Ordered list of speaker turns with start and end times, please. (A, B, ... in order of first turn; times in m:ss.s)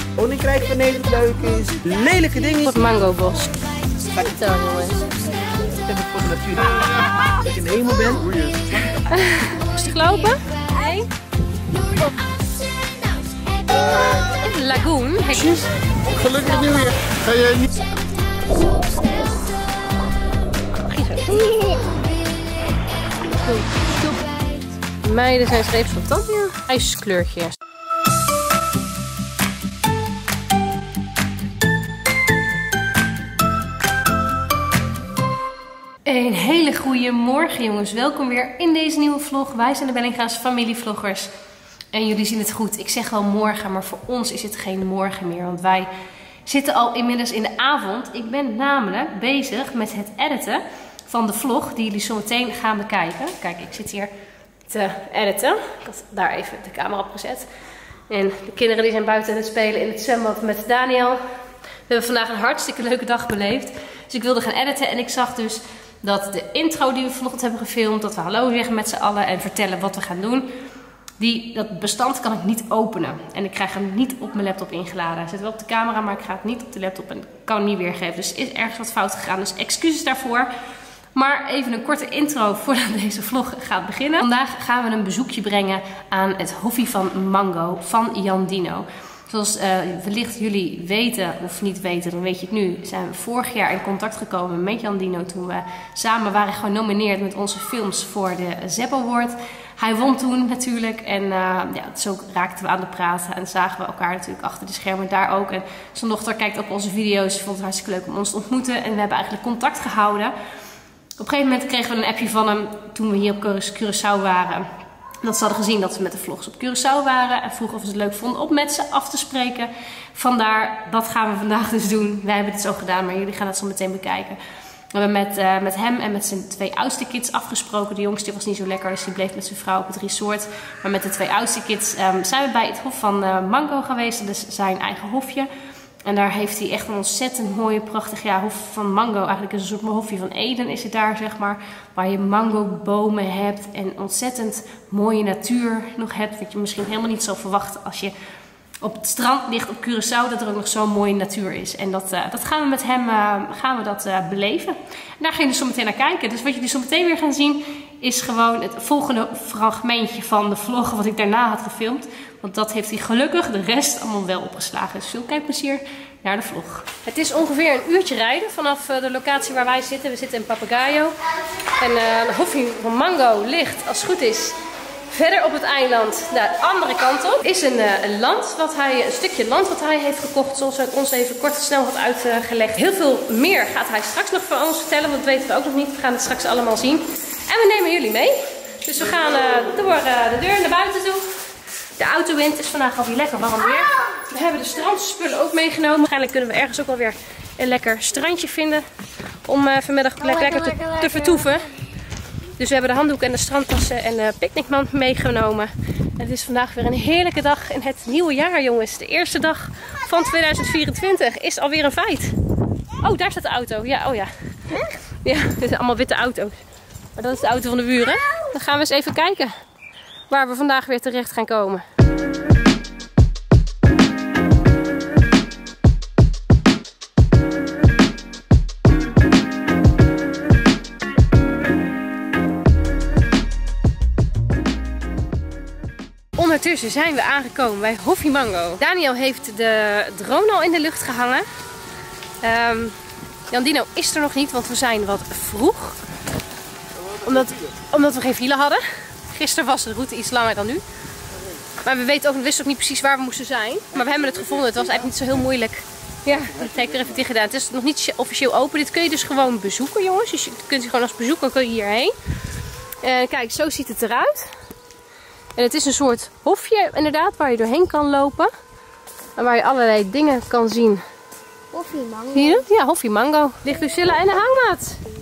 0:00.2-0:03.0 A
0:01.0-0:05.9 B
0:02.6-0:03.6 C
0:04.2-0:05.0 C
0:05.8-0:08.3 A
0:06.6-0:17.1 B
0:06.8-0:07.2 D
0:08.0-0:09.1 D
0:09.1-0:11.1 C
0:13.8-0:14.3 D
0:14.2-0:15.7 C
0:15.3-0:17.7 D
0:17.7-0:20.2 B
0:20.8-0:21.6 C
0:21.2-0:24.8 B
0:25.0-0:27.6 C
0:36.1-0:41.3 C
0:41.9-0:45.9 C
0:46.5-0:54.1 C
0:54.7-0:57.5 C
0:58.1-1:01.2 C
1:01.9-1:10.5 C
1:11.2-1:20.5 C
1:21.2-1:50.4 C
1:51.2-1:54.7 C
1:55.2-2:04.4 C
2:04.9-2:15.5 C
2:16.0-2:28.2 C
2:28.8-3:11.4 C
3:12.0-3:18.9 C
3:13.6-3:14.2 B
3:19.5-3:21.7 C
3:20.2-3:21.7 B
3:22.6-3:32.4 C
3:33.0-3:36.6 C
3:37.2-3:39.6 C
3:40.3-3:41.8 C
3:56.4-4:01.5 C
4:02.4-4:03.0 C
4:03.5-4:06.0 C
4:07.0-4:07.7 D
4:07.2-4:10.8 C
4:11.8-4:22.1 C
4:13.9-4:15.4 D
4:16.4-4:17.2 D
4:23.0-4:24.5 C
4:25.6-4:28.5 C
4:29.4-4:31.0 C
4:31.7-4:32.6 B
4:32.3-4:35.0 C